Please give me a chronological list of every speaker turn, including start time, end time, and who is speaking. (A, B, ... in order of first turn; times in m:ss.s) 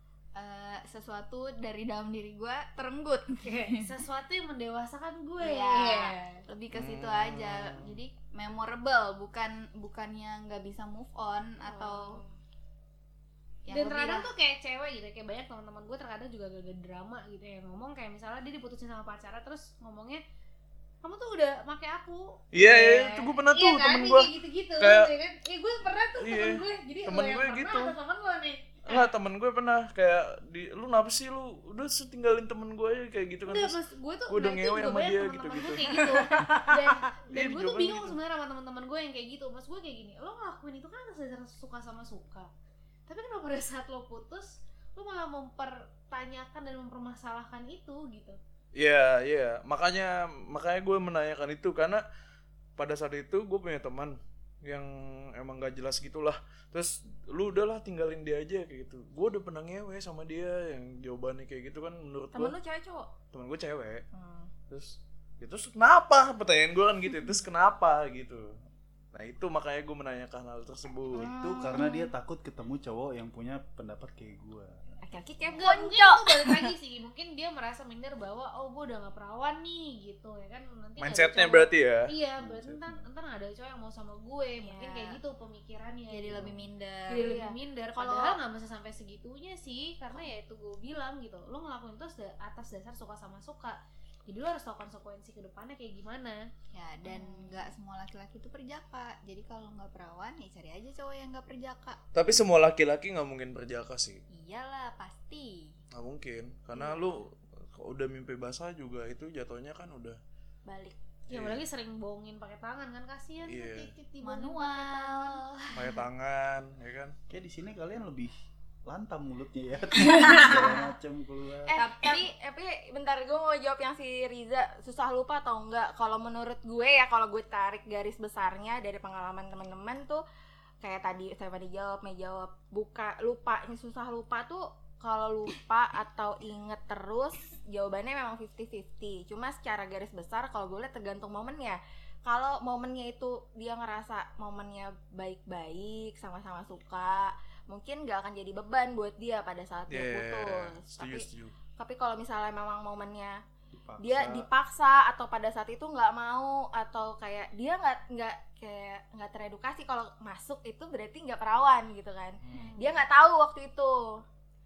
0:00.4-0:04.0 A
0:03.4-0:06.4 B
0:05.4-0:12.2 A
0:06.7-0:08.0 C
0:11.6-0:12.4 D
0:13.7-0:14.3 A
0:13.7-0:20.2 B
0:21.0-0:29.0 B
0:22.5-0:25.1 C
0:26.2-0:28.0 C
0:28.9-0:33.8 C
0:33.5-0:42.5 B
0:34.3-0:36.1 C
0:36.3-0:36.7 D
0:37.3-0:38.2 C
0:43.1-0:48.4 B
0:48.8-0:52.0 C
0:52.8-1:02.6 C
1:02.3-1:03.1 D
1:03.3-1:04.0 C
1:04.1-1:04.5 D
1:04.7-1:08.6 C
1:09.1-1:11.3 C
1:11.1-1:12.1 D
1:11.2-1:14.8 E
1:15.0-1:16.7 D
1:15.6-1:26.5 B
1:21.0-1:22.1 C
1:22.4-1:23.1 E
1:24.6-1:25.2 D
1:26.1-1:27.4 A
1:27.1-1:36.5 B
1:27.1-1:28.4 D
1:36.7-1:42.0 A
1:37.1-1:37.5 B
1:42.1-1:44.2 C
1:44.3-1:45.8 A
1:45.9-1:50.2 C
1:50.7-1:51.0 D
1:51.3-1:55.4 B
1:51.3-1:51.6 C
1:53.4-1:53.9 C
1:54.2-1:56.0 A
1:55.7-1:57.2 C
1:57.3-1:58.3 E
1:58.9-2:01.8 E
2:00.2-2:00.8 A
2:01.7-2:10.2 D
2:01.7-2:02.3 A
2:10.8-2:33.4 D
2:29.9-2:31.5 C
2:33.7-2:34.5 E
2:34.0-2:44.2 D
2:42.4-2:42.7 E
2:42.5-2:43.0 A